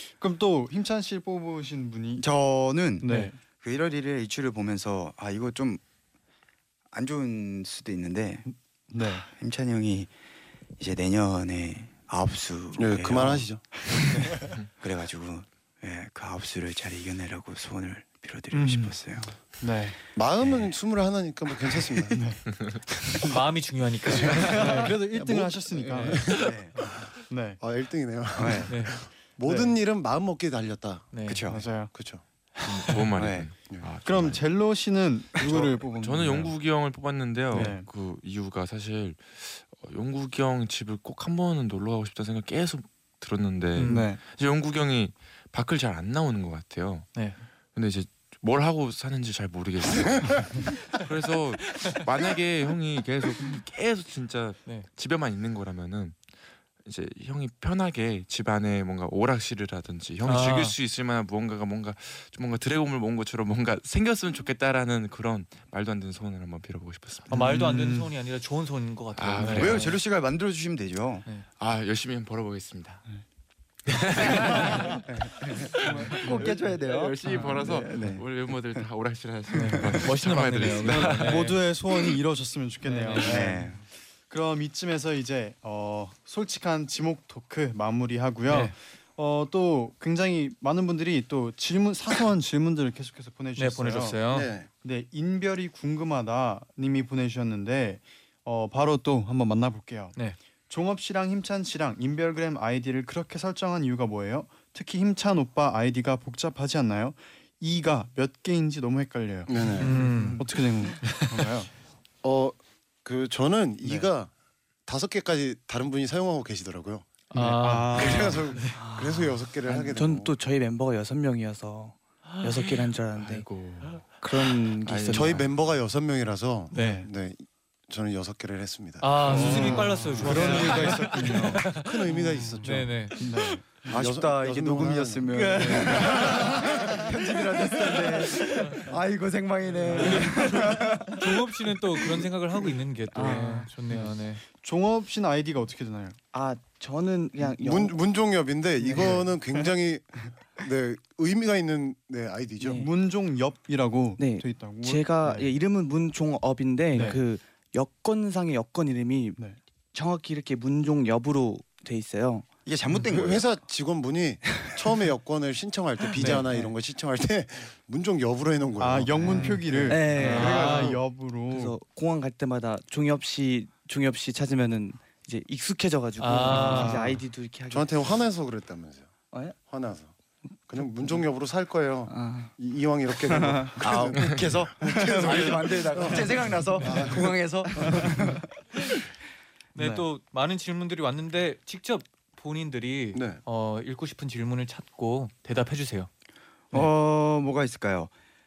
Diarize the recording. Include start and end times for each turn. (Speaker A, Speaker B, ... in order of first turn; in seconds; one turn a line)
Speaker A: 0.2-2.2
Speaker B: 2.2-5.8
Speaker A: 3.0-3.4
Speaker C: 3.0-3.3
Speaker B: 6.9-8.5
Speaker A: 8.5-9.3
Speaker B: 9.0-10.1
Speaker B: 10.8-19.3
Speaker D: 12.8-13.6
Speaker A: 18.5-19.0
Speaker A: 19.6-20.0
Speaker D: 20.2-22.2
Speaker B: 20.4-20.7
Speaker A: 22.1-22.4
Speaker C: 23.2-25.0
Speaker D: 24.1-31.1
Speaker A: 24.5-26.3
Speaker C: 25.8-26.7
Speaker B: 26.3-26.7
Speaker A: 27.3-27.6
Speaker B: 28.3-28.7
Speaker C: 28.7-29.0
Speaker A: 29.4-29.8
Speaker C: 31.1-31.6
Speaker B: 31.3-31.6
Speaker A: 31.5-31.9
Speaker D: 31.9-32.2
Speaker E: 32.6-34.4
Speaker B: 32.9-33.5
Speaker A: 34.0-36.5
Speaker E: 35.6-47.1
Speaker A: 37.5-37.9
Speaker C: 43.8-44.1
Speaker A: 43.9-44.2
Speaker C: 47.1-47.4
Speaker E: 47.7-56.2
Speaker C: 51.6-52.0
Speaker E: 56.8-67.3
Speaker C: 60.2-60.8
Speaker C: 67.3-70.0
Speaker A: 67.3-68.1
Speaker E: 69.1-70.0
Speaker B: 69.5-71.2
Speaker E: 71.6-73.0
Speaker E: 73.9-81.5
Speaker B: 75.5-78.9
Speaker A: 75.8-76.2
Speaker C: 77.2-77.5
Speaker C: 79.6-81.7
Speaker A: 80.9-83.7
Speaker C: 82.9-83.6
Speaker B: 83.2-83.8
Speaker A: 84.3-94.2
Speaker C: 88.5-88.8
Speaker C: 93.6-94.5
Speaker D: 94.3-94.7
Speaker A: 94.8-100.2
Speaker A: 100.7-111.7
Speaker D: 109.5-110.0
Speaker C: 109.8-110.4
Speaker F: 109.8-110.5
Speaker C: 111.0-111.5
Speaker D: 112.2-114.3
Speaker A: 113.8-114.1
Speaker D: 114.9-117.1
Speaker C: 117.3-118.8
Speaker A: 117.3-118.4
Speaker D: 117.9-120.3
Speaker F: 118.8-125.5
Speaker C: 122.3-122.8
Speaker E: 123.2-124.0
Speaker E: 124.8-125.4
Speaker D: 125.1-133.1
Speaker C: 126.7-127.1
Speaker A: 126.7-127.1
Speaker C: 129.0-133.2
Speaker A: 129.2-131.8
Speaker A: 132.4-133.6
Speaker B: 133.8-141.5
Speaker D: 133.8-137.0
Speaker F: 135.2-136.4
Speaker C: 135.6-136.1
Speaker F: 137.6-138.4
Speaker C: 139.7-144.4
Speaker A: 139.9-140.4
Speaker F: 143.1-143.7
Speaker A: 143.2-146.2
Speaker F: 146.3-148.0
Speaker D: 147.5-152.9
Speaker F: 148.8-149.6
Speaker A: 148.9-149.3
Speaker F: 152.6-152.9
Speaker A: 152.8-155.5
Speaker F: 154.2-159.4
Speaker A: 156.9-157.2
Speaker F: 159.9-162.5
Speaker B: 162.7-163.5
Speaker D: 163.0-170.0
Speaker F: 166.0-166.7
Speaker C: 166.2-166.5
Speaker A: 168.8-171.8
Speaker F: 169.2-178.1
Speaker C: 169.4-171.0
Speaker C: 176.2-177.2
Speaker A: 176.5-177.2
Speaker D: 177.7-180.1
Speaker F: 179.3-179.6
Speaker D: 180.7-188.1
Speaker F: 182.1-182.5
Speaker F: 183.3-183.8
Speaker B: 183.8-188.4
Speaker C: 186.8-187.1
Speaker C: 189.8-196.1
Speaker A: 189.8-190.1
Speaker D: 193.2-193.4
Speaker B: 196.7-198.1